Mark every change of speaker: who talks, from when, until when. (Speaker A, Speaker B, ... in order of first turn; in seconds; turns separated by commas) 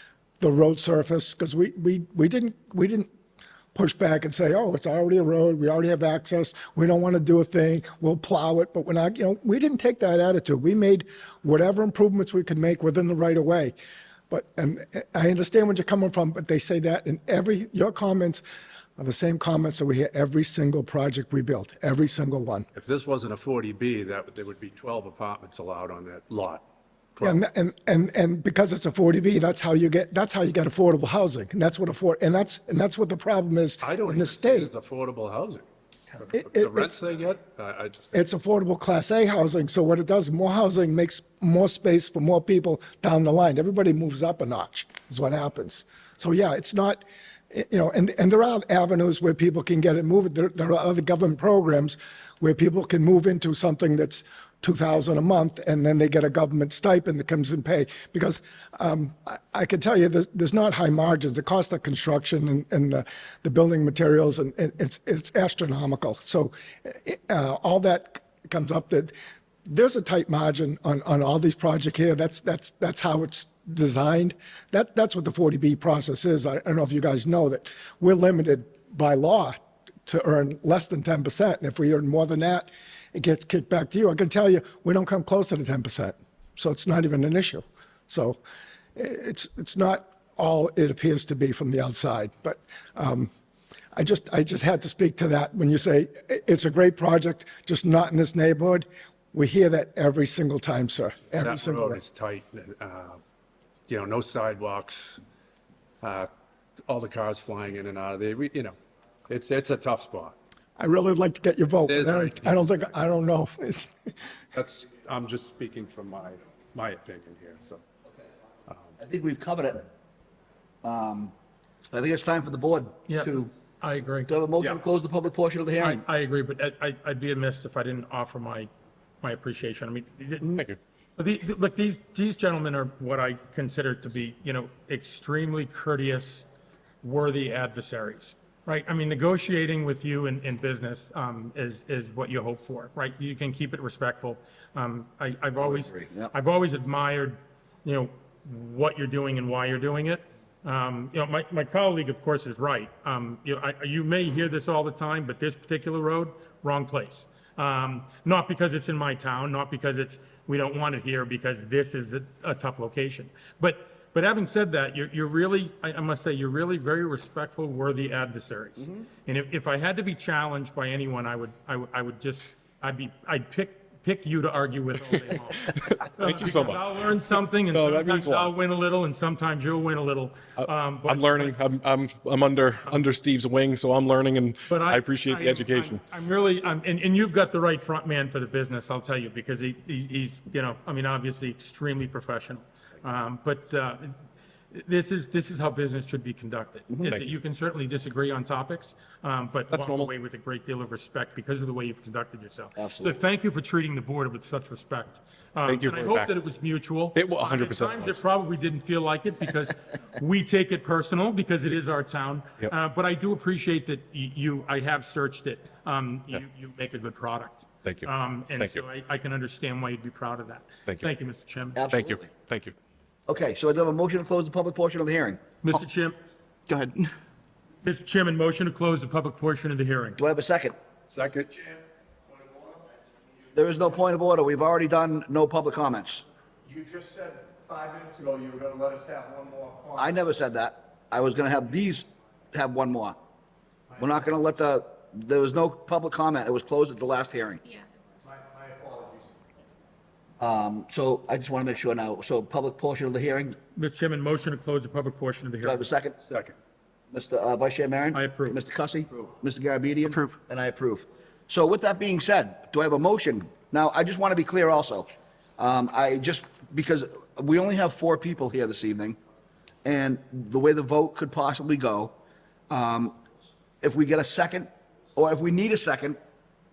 Speaker A: 0.4-3.1, Speaker A: 3.7-13.7, Speaker A: 14.3-18.4, Speaker A: 19.0-22.7, Speaker B: 22.7-26.6, Speaker A: 27.2-34.7, Speaker B: 33.8-35.7, Speaker B: 36.2-38.1, Speaker A: 36.3-36.9, Speaker A: 38.1-69.1, Speaker A: 69.7-88.4, Speaker A: 89.0-93.3, Speaker A: 93.9-102.0, Speaker B: 101.4-103.2, Speaker B: 103.9-105.2, Speaker B: 106.0-106.3, Speaker B: 106.9-108.8, Speaker B: 109.3-110.3, Speaker A: 110.8-114.1, Speaker B: 111.9-112.6, Speaker B: 114.5-117.8, Speaker B: 118.7-118.9, Speaker C: 119.0-119.9, Speaker C: 120.8-121.3, Speaker C: 121.9-123.5, Speaker D: 123.1-124.3, Speaker C: 124.3-126.0, Speaker D: 125.8-128.7, Speaker D: 129.2-130.6, Speaker D: 131.2-136.4, Speaker D: 137.0-181.6, Speaker C: 145.6-146.3, Speaker E: 175.7-176.9, Speaker E: 177.7-178.5, Speaker E: 180.6-186.0, Speaker D: 184.7-194.1, Speaker D: 194.7-221.8, Speaker E: 197.0-197.3, Speaker E: 199.7-200.1, Speaker C: 202.8-203.2, Speaker E: 205.6-206.3, Speaker E: 207.1-208.2, Speaker E: 217.8-218.8, Speaker C: 221.7-222.3, Speaker E: 221.9-222.7, Speaker C: 223.3-225.4, Speaker D: 225.6-226.2, Speaker C: 226.7-227.1, Speaker D: 227.8-230.2, Speaker C: 230.2-230.8, Speaker B: 231.1-231.5, Speaker F: 232.4-232.8, Speaker C: 233.5-236.2, Speaker F: 236.7-240.0, Speaker C: 239.9-243.2, Speaker C: 244.0-247.6, Speaker F: 248.2-249.4, Speaker C: 250.4-253.6, Speaker D: 253.7-255.8, Speaker C: 255.6-256.2, Speaker B: 256.2-256.6, Speaker C: 257.1-269.2, Speaker D: 258.1-258.6, Speaker C: 269.8-272.1, Speaker C: 272.7-273.2, Speaker C: 273.8-276.2